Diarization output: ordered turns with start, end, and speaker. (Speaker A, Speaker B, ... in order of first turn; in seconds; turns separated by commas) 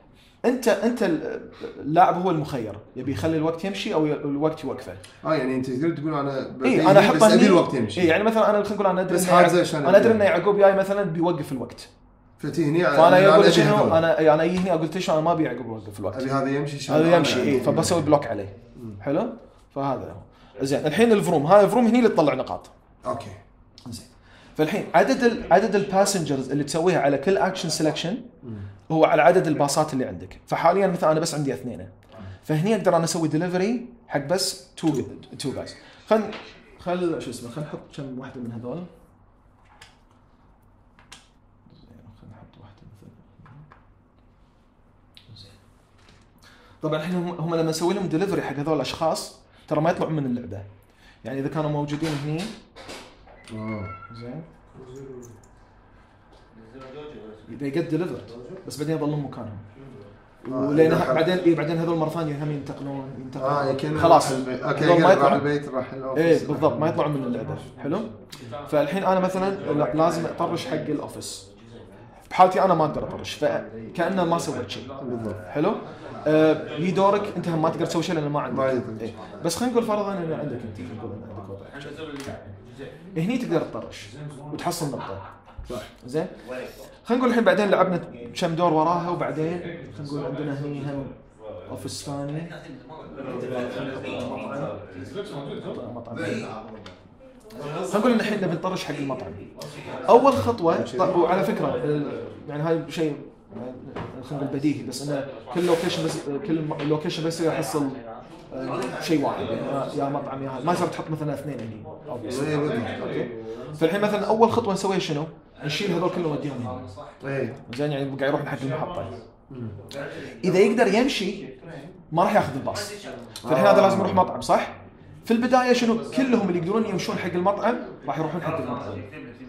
Speaker A: 0.4-5.0, Speaker B: 5.2-8.1, Speaker A: 6.6-11.9, Speaker B: 9.1-10.2, Speaker B: 12.4-14.0, Speaker A: 12.9-16.3, Speaker B: 16.1-18.0, Speaker A: 16.9-22.7, Speaker B: 23.0-23.4, Speaker A: 23.9-28.2, Speaker B: 28.4-28.7, Speaker A: 28.9-31.9, Speaker A: 32.5-38.9, Speaker A: 41.8-43.6, Speaker A: 46.8-50.7, Speaker A: 51.2-52.5, Speaker B: 53.5-53.9, Speaker A: 54.1-54.5, Speaker B: 54.7-55.3, Speaker A: 57.5-59.6, Speaker A: 60.4-65.5, Speaker B: 60.5-61.3, Speaker B: 63.4-67.0, Speaker A: 66.1-68.1, Speaker A: 68.6-71.5, Speaker A: 72.3-74.9, Speaker B: 75.0-75.4, Speaker A: 75.5-82.0, Speaker B: 78.5-79.4, Speaker A: 83.2-85.2, Speaker A: 86.0-86.3, Speaker A: 87.0-91.1, Speaker A: 91.7-92.5, Speaker A: 93.5-94.7, Speaker A: 95.7-96.5, Speaker A: 97.9-99.4, Speaker A: 100.0-116.8, Speaker B: 100.7-101.2, Speaker B: 112.2-113.3, Speaker B: 117.2-117.6, Speaker A: 117.7-119.2, Speaker B: 119.5-119.8, Speaker A: 120.4-121.5, Speaker A: 122.1-122.9, Speaker B: 123.4-124.3, Speaker A: 123.5-129.1